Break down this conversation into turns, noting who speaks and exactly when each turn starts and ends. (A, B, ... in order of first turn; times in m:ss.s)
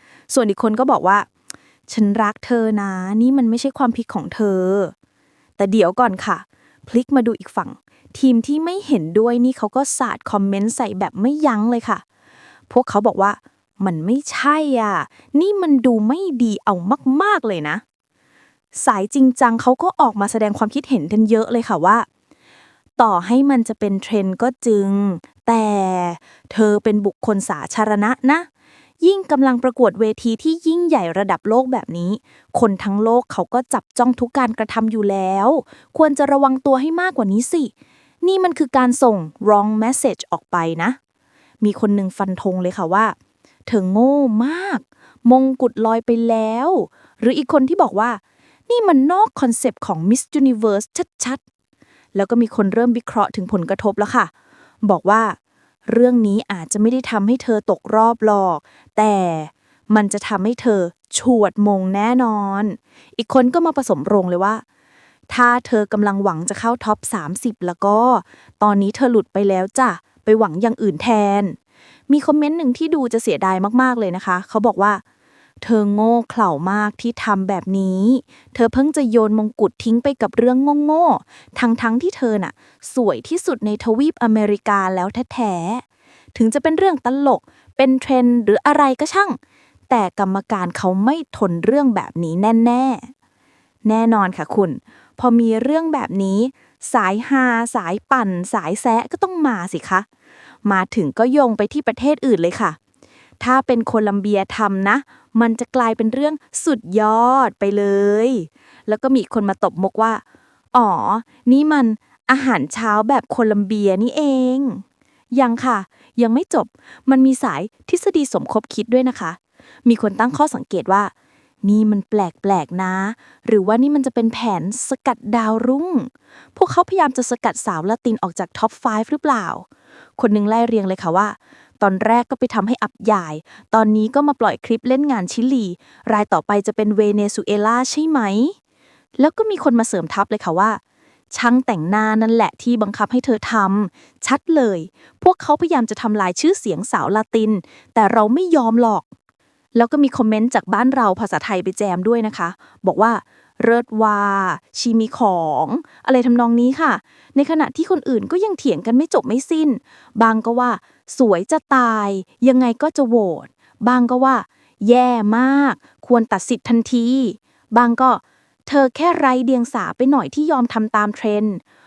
0:00.3-0:01.3 A
0:01.9-0:04.9 A
0:05.6-0:12.0 A
0:12.7-0:17.8 A
0:18.7-0:22.0 A
0:23.0-0:28.5 A
0:29.0-0:41.0 A
0:41.6-0:43.2 A
0:43.7-0:51.4 A
0:52.1-0:54.3 A
0:54.8-1:04.6 A
1:05.3-1:11.6 A
1:12.1-1:15.0 A
1:15.6-1:25.8 A
1:26.3-1:29.4 A
1:29.9-1:33.1 A
1:33.8-1:40.0 A
1:40.6-1:42.8 A
1:43.4-1:50.2 A
1:50.7-2:01.1 A
2:01.6-2:09.6 A
2:10.2-2:18.6 A
2:19.2-2:20.8 A
2:21.3-2:29.0 A
2:29.7-2:51.6 A